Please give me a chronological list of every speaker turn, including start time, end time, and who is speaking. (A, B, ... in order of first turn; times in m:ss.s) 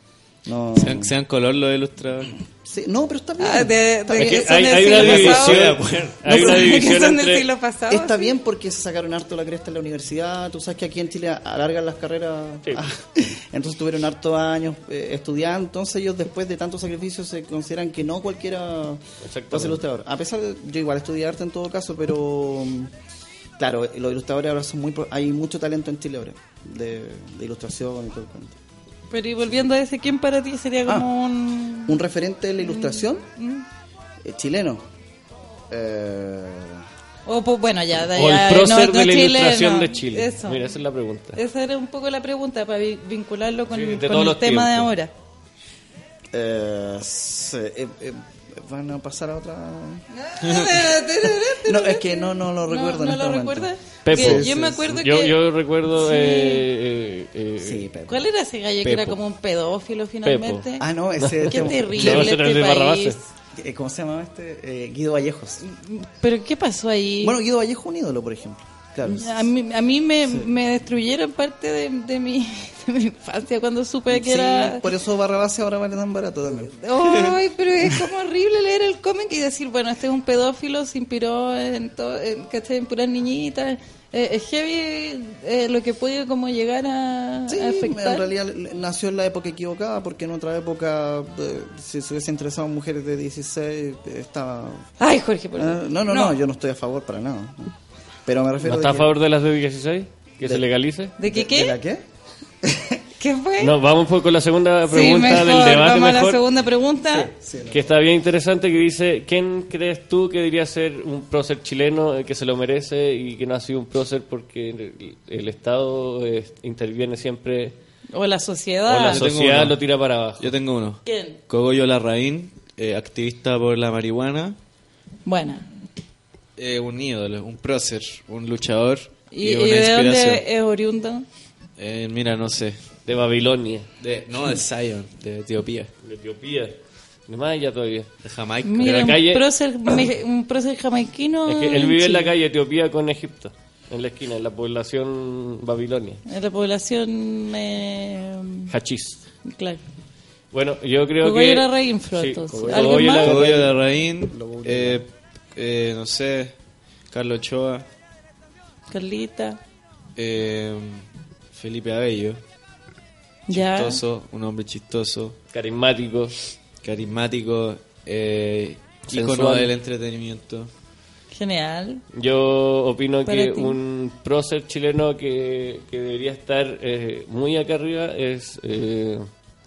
0:00.4-0:01.1 A
0:00.8-0:02.3 B
0:02.6-0:04.5 A
0:03.4-0:05.6 C
0:04.1-0:07.5 D
0:04.9-0:06.2 B
0:06.2-0:08.3 C
0:07.9-0:22.9 A
0:19.2-0:19.8 D
0:23.6-0:28.6 A
0:29.1-0:32.0 C
0:31.8-0:33.3 A
0:32.6-0:33.6 C
0:34.2-0:34.8 A
0:35.7-0:36.8 A
0:37.2-0:40.7 C
0:38.1-0:41.4 D
0:41.4-0:45.1 C
0:43.7-0:44.9 D
0:46.3-0:50.0 A
0:50.1-0:55.4 C
0:51.5-0:55.0 A
0:54.0-0:57.8 D
0:56.0-0:56.6 C
0:57.6-0:58.3 A
0:58.1-1:00.9 C
0:58.8-0:59.2 B
1:00.2-1:00.6 D
1:00.8-1:02.4 A
1:01.2-1:03.2 D
1:01.5-1:03.2 C
1:03.5-1:05.6 A
1:05.6-1:07.4 C
1:07.2-1:09.4 A
1:09.0-1:14.9 C
1:14.1-1:17.3 A
1:16.7-1:28.3 C
1:27.5-1:34.9 A
1:35.0-1:36.4 C
1:35.5-1:37.7 A
1:38.2-1:39.1 A
1:38.6-1:41.1 D
1:41.2-1:41.8 C
1:41.2-1:42.0 A
1:42.6-1:43.0 A
1:43.2-1:43.7 C
1:43.6-1:46.4 D
1:44.9-1:47.3 C
1:47.1-1:47.9 A
1:47.7-1:57.8 D
1:58.1-1:59.2 C
1:58.9-2:00.5 D
1:59.0-1:59.8 B
2:00.4-2:04.6 B
2:01.0-2:01.4 C
2:05.2-2:05.6 C
2:06.6-2:10.4 B
2:09.3-2:11.2 C
2:11.8-2:12.8 B
2:13.0-2:13.9 D
2:14.0-2:15.9 B
2:16.0-2:18.1 D
2:18.2-2:19.2 B
2:18.6-2:22.3 C
2:18.8-2:19.4 D
2:21.4-2:26.2 D
2:26.3-2:28.7 C
2:28.7-2:29.2 D
2:29.4-2:29.8 C
2:30.5-2:33.7 D
2:31.2-2:33.3 C
2:32.5-2:33.6 A
2:33.0-2:36.6 B
2:34.2-2:35.0 A
2:37.1-2:37.8 B
2:38.9-2:39.6 C
2:40.2-2:42.4 B
2:43.5-2:44.0 C
2:43.5-2:45.4 B
2:45.5-2:46.3 D
2:46.8-2:50.7 B
2:49.1-2:49.7 D
2:51.3-2:52.0 C
2:52.1-2:59.2 D
2:53.2-2:53.8 C